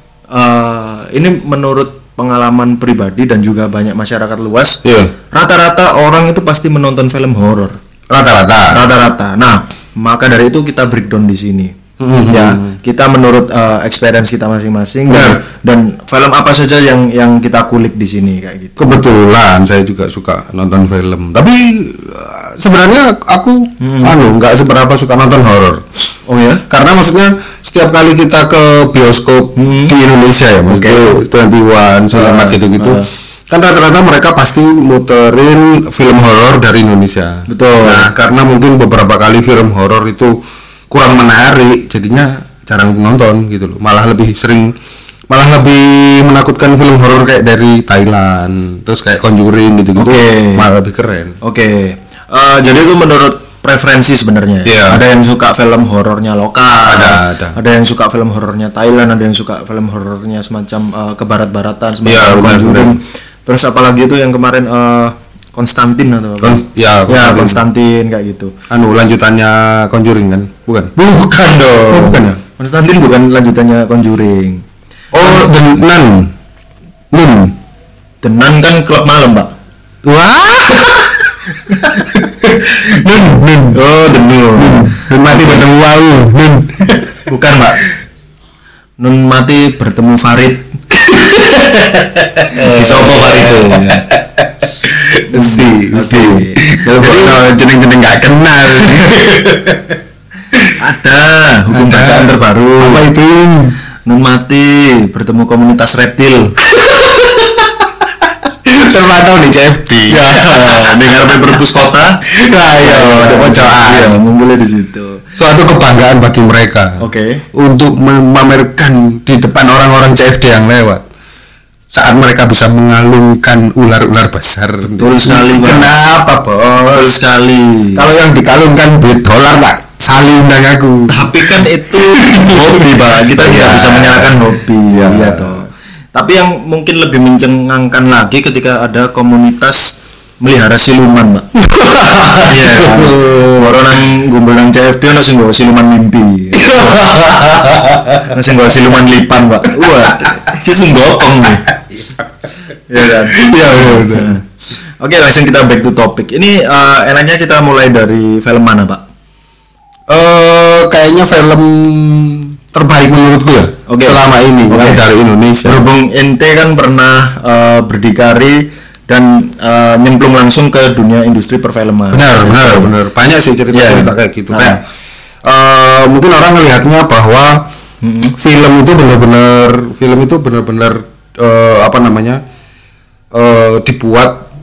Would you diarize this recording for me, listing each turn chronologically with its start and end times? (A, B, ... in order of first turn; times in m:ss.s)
0:00.3-0:04.8 A
0:04.8-0:05.1 B
0:05.3-0:07.8 A
0:08.1-0:08.8 B
0:08.7-0:11.7 A
0:12.0-0:12.7 B
0:12.3-0:19.0 A
0:15.1-0:15.4 B
0:18.8-0:25.8 B
0:23.8-0:24.2 A
0:26.3-0:26.6 A
0:26.7-0:44.8 B
0:29.6-0:29.9 A
0:30.7-0:31.2 A
0:32.1-0:33.1 A
0:37.5-0:38.1 A
0:45.3-0:51.4 B
0:50.0-0:50.7 A
0:51.4-1:08.6 A
0:54.6-0:55.0 B
0:56.8-0:57.6 B
1:02.0-1:03.0 B
1:06.4-1:07.6 B
1:08.7-1:10.9 B
1:11.0-1:14.6 A
1:11.9-1:12.4 B
1:15.1-1:16.3 B
1:15.1-1:15.5 A
1:17.1-1:17.6 B
1:18.2-1:19.5 A
1:20.0-1:23.8 B
1:21.7-1:22.1 A
1:23.7-1:25.6 A
1:24.6-1:27.1 B
1:27.3-1:27.9 A
1:29.0-1:30.7 A
1:31.0-1:40.0 B
1:32.5-1:34.1 A
1:35.3-1:37.4 A
1:40.8-1:43.0 A
1:41.7-1:43.8 B
1:44.0-1:46.6 A
1:46.8-1:51.6 B
1:50.1-1:52.2 A
1:52.3-1:54.2 B
1:52.8-1:55.2 A
1:55.4-2:01.0 B
1:57.0-1:57.4 A
2:01.9-2:07.2 B
2:04.8-2:05.9 A
2:06.8-2:08.1 A
2:07.9-2:15.6 B
2:11.1-2:21.5 A
2:21.6-2:23.8 B
2:22.4-2:27.6 A
2:26.6-2:28.4 B
2:28.2-2:31.8 A
2:31.9-2:32.2 B
2:32.9-2:34.4 A
2:33.3-2:34.4 B
2:35.0-2:39.0 A
2:40.1-2:45.8 B
2:43.9-2:45.0 A
2:45.6-2:52.9 A
2:52.1-2:54.8 B
2:53.7-2:54.8 A
2:55.4-2:57.7 B
2:58.0-2:58.3 A
2:58.4-3:02.4 B
3:03.3-3:04.5 B